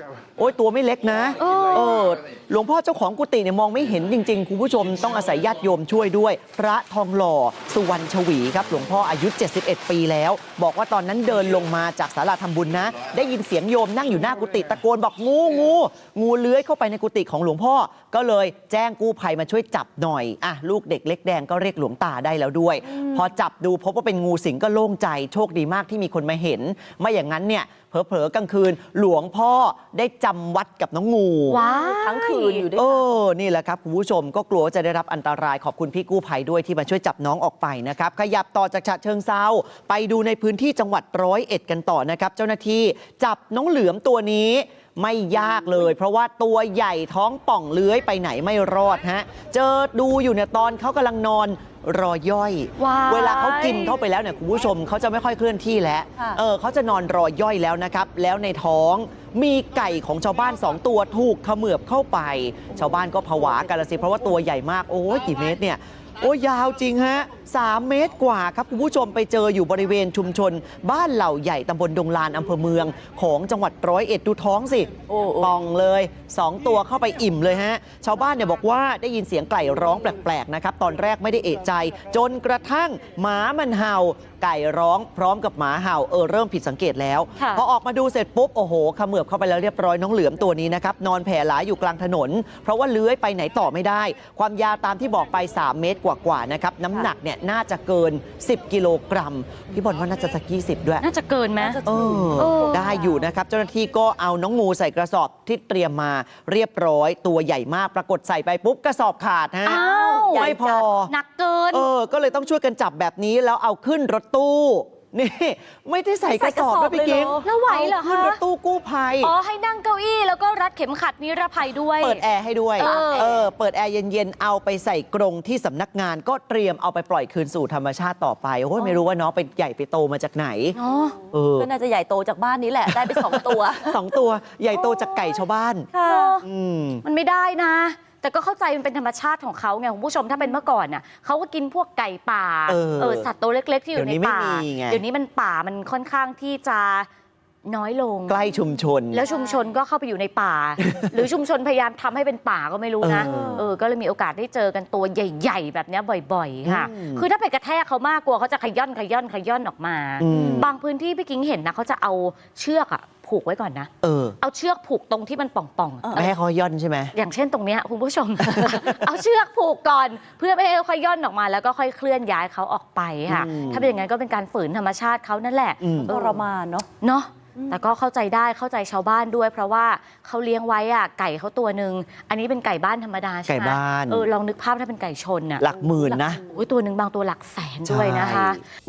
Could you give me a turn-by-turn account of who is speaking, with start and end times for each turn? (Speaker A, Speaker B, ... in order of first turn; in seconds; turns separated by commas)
Speaker A: 0.4-31.6, Speaker B: 1.4-2.0, Speaker B: 31.5-32.7, Speaker C: 31.6-33.1, Speaker A: 32.8-101.0, Speaker B: 52.8-54.0, Speaker C: 75.1-75.5, Speaker B: 87.4-87.6, Speaker B: 101.0-101.8, Speaker C: 101.6-103.3, Speaker A: 101.8-111.1, Speaker B: 102.4-103.0, Speaker B: 109.6-111.9, Speaker C: 109.7-110.9, Speaker A: 111.7-119.3, Speaker C: 116.3-117.5, Speaker B: 117.4-118.4, Speaker B: 119.2-122.2, Speaker A: 122.0-130.8, Speaker B: 122.8-123.4, Speaker C: 122.8-123.4, Speaker B: 130.8-131.2, Speaker A: 131.3-131.7, Speaker C: 131.6-134.0, Speaker A: 132.9-135.9, Speaker B: 134.7-135.4, Speaker C: 135.9-136.4, Speaker B: 136.1-136.4, Speaker A: 136.4-137.0, Speaker B: 137.0-147.1, Speaker A: 142.7-143.3, Speaker A: 144.0-145.0, Speaker B: 147.7-148.4, Speaker A: 148.3-149.2, Speaker B: 149.1-163.9, Speaker C: 149.3-149.6, Speaker A: 153.0-153.7, Speaker C: 153.2-153.6, Speaker A: 156.7-157.2, Speaker A: 160.2-160.7, Speaker A: 164.0-164.4, Speaker B: 164.4-166.3, Speaker A: 166.1-167.1, Speaker B: 167.1-176.4, Speaker A: 168.5-169.0, Speaker A: 173.3-173.9, Speaker A: 175.8-176.1, Speaker C: 176.1-176.9, Speaker B: 177.0-185.7, Speaker A: 183.5-184.3, Speaker A: 185.6-186.4, Speaker C: 185.9-186.5, Speaker B: 186.5-188.6, Speaker A: 187.8-188.6